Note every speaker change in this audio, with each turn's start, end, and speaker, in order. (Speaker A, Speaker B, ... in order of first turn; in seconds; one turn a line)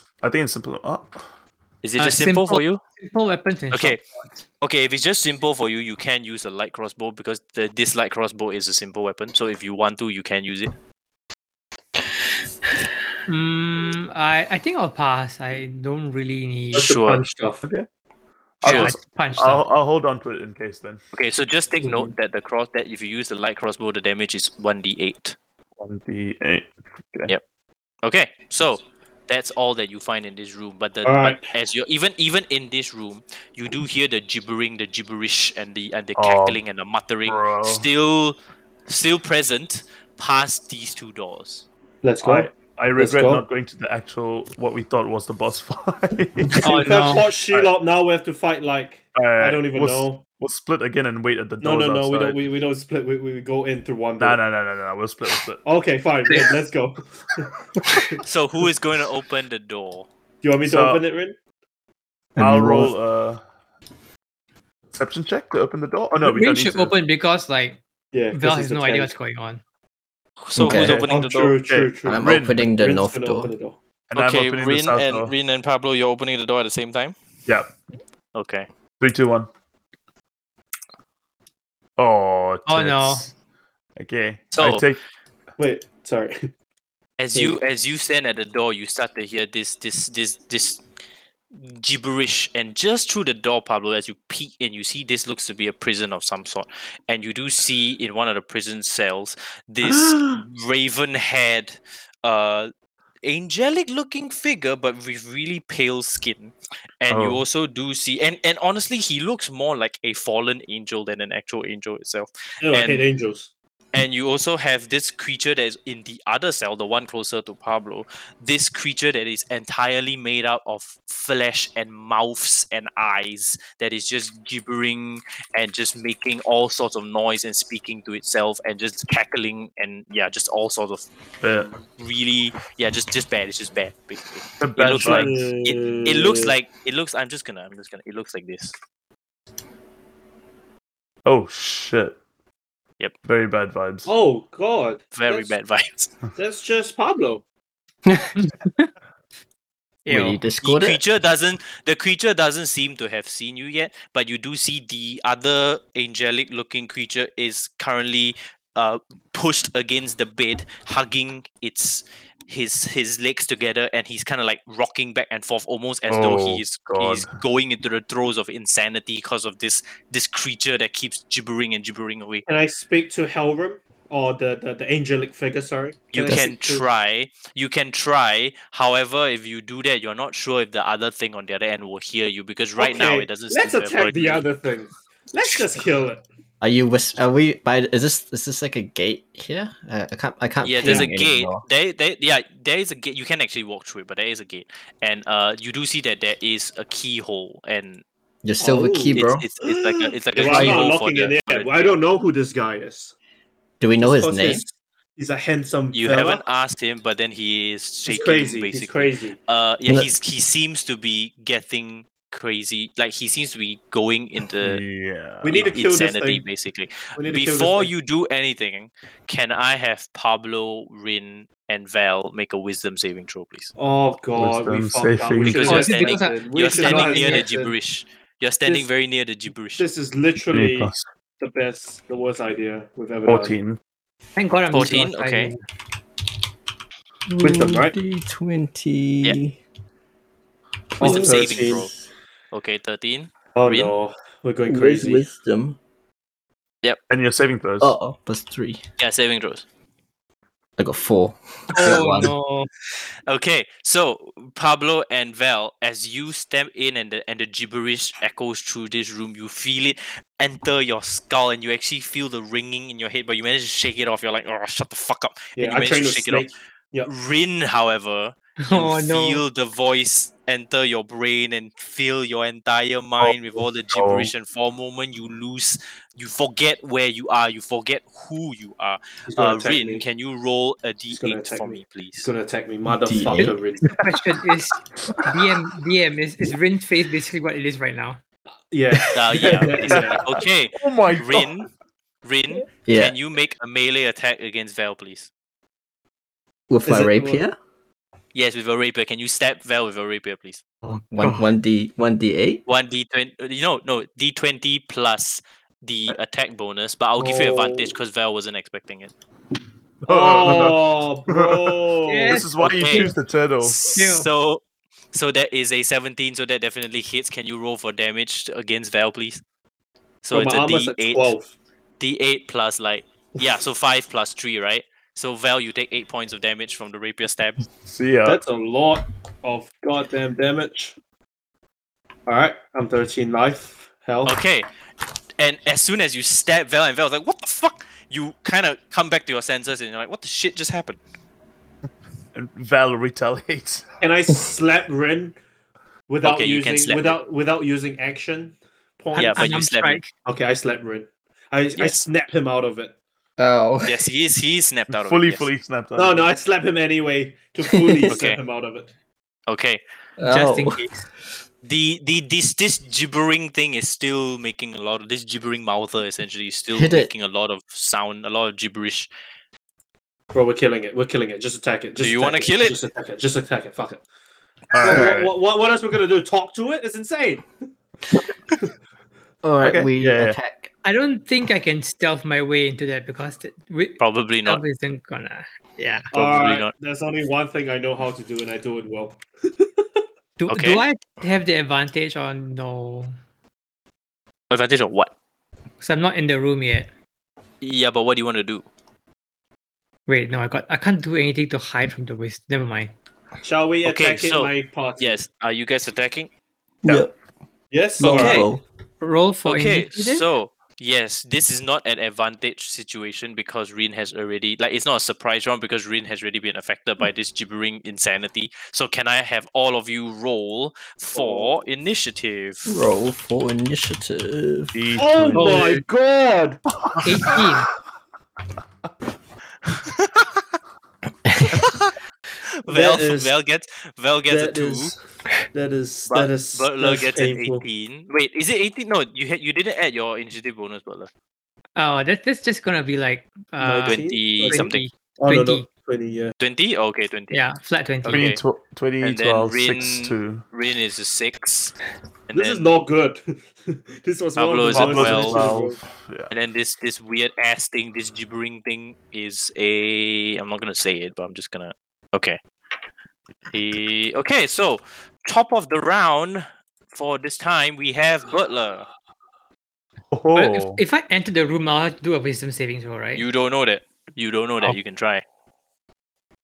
Speaker A: 0.2-1.2
Speaker B: 1.8-2.8
Speaker C: 2.0-4.4
Speaker B: 3.7-4.0
Speaker B: 4.6-10.7
Speaker C: 13.3-16.9
Speaker B: 16.7-17.2
Speaker D: 16.7-17.6
Speaker A: 18.6-21.0
Speaker B: 18.6-18.9
Speaker C: 18.6-19.6
Speaker B: 21.1-25.4
Speaker D: 21.8-22.1
Speaker A: 25.8-27.3
Speaker B: 28.0-38.4
Speaker D: 31.0-31.5
Speaker A: 36.1-36.6
Speaker A: 37.2-37.9
Speaker B: 38.9-41.6
Speaker D: 42.0-43.4
Speaker A: 42.2-46.8
Speaker C: 46.6-47.2
Speaker D: 46.6-50.2
Speaker A: 49.1-52.4
Speaker D: 51.6-54.4
Speaker A: 54.2-55.6
Speaker D: 55.6-58.2
Speaker B: 58.2-60.1
Speaker D: 60.4-61.4
Speaker A: 60.6-61.0
Speaker E: 62.4-62.9
Speaker A: 62.4-63.4
Speaker A: 64.9-66.9
Speaker C: 66.2-67.8
Speaker D: 68.1-69.1
Speaker C: 68.3-69.6
Speaker B: 70.4-71.6
Speaker E: 70.5-71.0
Speaker A: 70.6-71.1
Speaker D: 70.9-73.8
Speaker A: 71.7-72.7
Speaker E: 72.0-73.5
Speaker A: 74.1-75.3
Speaker B: 74.1-77.2
Speaker A: 77.5-77.7
Speaker B: 78.3-78.7
Speaker A: 79.0-79.5
Speaker A: 82.0-83.3
Speaker C: 82.7-83.3
Speaker A: 84.0-85.0
Speaker B: 84.5-84.9
Speaker D: 85.6-86.5
Speaker B: 87.2-90.8
Speaker B: 91.5-102.7
Speaker A: 99.8-100.4
Speaker B: 103.2-113.0
Speaker A: 107.1-107.4
Speaker D: 112.6-113.5
Speaker B: 113.9-131.1
Speaker A: 131.4-131.7
Speaker B: 131.7-138.7
Speaker A: 134.6-135.4
Speaker D: 134.9-136.5
Speaker A: 141.2-142.2
Speaker A: 143.2-144.1
Speaker D: 144.1-145.5
Speaker B: 145.1-146.1
Speaker D: 146.3-147.4
Speaker C: 148.4-148.9
Speaker C: 150.0-150.4
Speaker E: 150.1-151.0
Speaker B: 150.6-172.4
Speaker A: 166.1-167.3
Speaker D: 172.4-176.8
Speaker B: 176.1-184.4
Speaker D: 182.8-186.2
Speaker E: 186.6-191.6
Speaker B: 190.6-198.0
Speaker E: 198.4-199.4
Speaker D: 198.6-203.1
Speaker B: 199.1-202.0
Speaker E: 200.4-200.8
Speaker E: 203.8-204.6
Speaker D: 204.0-206.4
Speaker B: 205.9-214.8
Speaker D: 208.1-209.4
Speaker A: 214.6-215.8
Speaker D: 215.4-216.4
Speaker B: 215.6-223.7
Speaker D: 217.2-217.9
Speaker D: 223.8-227.7
Speaker A: 224.3-225.8
Speaker B: 225.4-229.8
Speaker C: 225.6-227.5
Speaker D: 229.8-233.6
Speaker A: 230.5-231.1
Speaker A: 233.2-233.8
Speaker C: 234.3-235.6
Speaker B: 234.7-235.5
Speaker E: 237.3-239.6
Speaker D: 237.4-237.9
Speaker D: 241.0-241.9
Speaker E: 241.0-241.9
Speaker B: 241.0-241.9
Speaker B: 242.5-243.9
Speaker D: 243.5-245.2
Speaker E: 244.7-245.8
Speaker A: 247.1-247.9
Speaker E: 247.8-248.8
Speaker B: 249.0-249.6
Speaker E: 250.8-252.3
Speaker C: 251.7-252.7
Speaker B: 253.3-266.5
Speaker D: 265.6-267.1
Speaker B: 267.0-282.3
Speaker C: 268.6-269.4
Speaker A: 273.9-274.3
Speaker D: 279.3-280.0
Speaker D: 281.1-283.9
Speaker E: 282.9-283.6
Speaker C: 283.9-288.2
Speaker A: 285.0-285.3
Speaker D: 288.7-290.2
Speaker B: 289.1-291.7
Speaker A: 289.9-291.5
Speaker B: 292.2-295.3
Speaker E: 292.8-293.1
Speaker E: 296.7-297.6
Speaker D: 296.9-297.4
Speaker B: 298.3-300.6
Speaker E: 300.8-302.6
Speaker C: 301.2-301.5
Speaker B: 302.6-309.1
Speaker D: 307.2-307.9
Speaker D: 310.0-312.4
Speaker A: 310.0-313.8
Speaker C: 312.1-313.1
Speaker B: 312.6-319.4
Speaker C: 313.8-314.3
Speaker B: 320.2-321.3
Speaker D: 320.3-321.5
Speaker B: 322.0-327.6
Speaker A: 327.8-328.4
Speaker D: 328.2-330.9
Speaker D: 332.2-334.4
Speaker B: 334.2-334.7
Speaker B: 335.4-341.0
Speaker A: 342.3-343.8
Speaker D: 344.0-345.4
Speaker D: 346.1-349.5
Speaker B: 346.2-347.2
Speaker C: 349.1-350.1
Speaker B: 349.1-350.0
Speaker D: 350.2-352.9
Speaker B: 351.8-352.0
Speaker E: 353.4-354.0
Speaker B: 353.8-355.5
Speaker A: 354.9-356.3
Speaker D: 355.9-358.9
Speaker E: 357.6-358.1
Speaker B: 358.1-358.4
Speaker B: 359.5-359.8
Speaker E: 360.2-360.8
Speaker C: 360.3-361.1
Speaker B: 361.6-369.1
Speaker E: 366.7-367.1
Speaker D: 370.3-374.0
Speaker B: 372.0-372.8
Speaker A: 374.7-375.3
Speaker D: 374.8-377.4
Speaker E: 374.8-375.1
Speaker E: 379.4-380.7
Speaker A: 379.6-380.4
Speaker C: 380.8-386.1
Speaker B: 384.0-384.6
Speaker B: 386.1-386.7
Speaker D: 386.1-390.0
Speaker C: 390.4-393.1
Speaker B: 390.5-390.8
Speaker B: 394.5-395.1
Speaker C: 395.8-396.9
Speaker B: 397.6-398.6
Speaker C: 400.1-402.9
Speaker D: 403.4-405.2
Speaker B: 403.8-406.3
Speaker E: 406.8-407.1
Speaker D: 407.7-408.5
Speaker E: 408.0-408.6
Speaker B: 408.0-408.5
Speaker C: 409.0-410.2
Speaker B: 409.4-422.8
Speaker D: 421.1-421.5
Speaker E: 422.7-424.8
Speaker A: 424.7-425.8
Speaker D: 425.0-426.6
Speaker C: 425.3-425.8
Speaker A: 426.7-427.5
Speaker C: 427.0-427.7
Speaker B: 429.8-430.2
Speaker E: 431.2-431.6
Speaker B: 431.7-431.9
Speaker B: 432.6-434.9
Speaker D: 432.7-433.3
Speaker D: 434.3-435.0
Speaker D: 435.5-437.6
Speaker B: 436.1-441.1
Speaker C: 441.8-445.6
Speaker D: 443.6-446.3
Speaker B: 443.8-444.9
Speaker B: 446.4-447.4
Speaker C: 447.3-448.3
Speaker B: 448.0-448.4
Speaker A: 448.1-450.4
Speaker B: 449.0-451.7
Speaker B: 452.3-452.6
Speaker D: 452.3-455.8
Speaker B: 454.4-455.5
Speaker A: 454.7-456.3
Speaker B: 456.3-462.4
Speaker B: 463.5-468.9
Speaker A: 470.1-470.8
Speaker C: 470.3-473.2
Speaker B: 473.1-475.2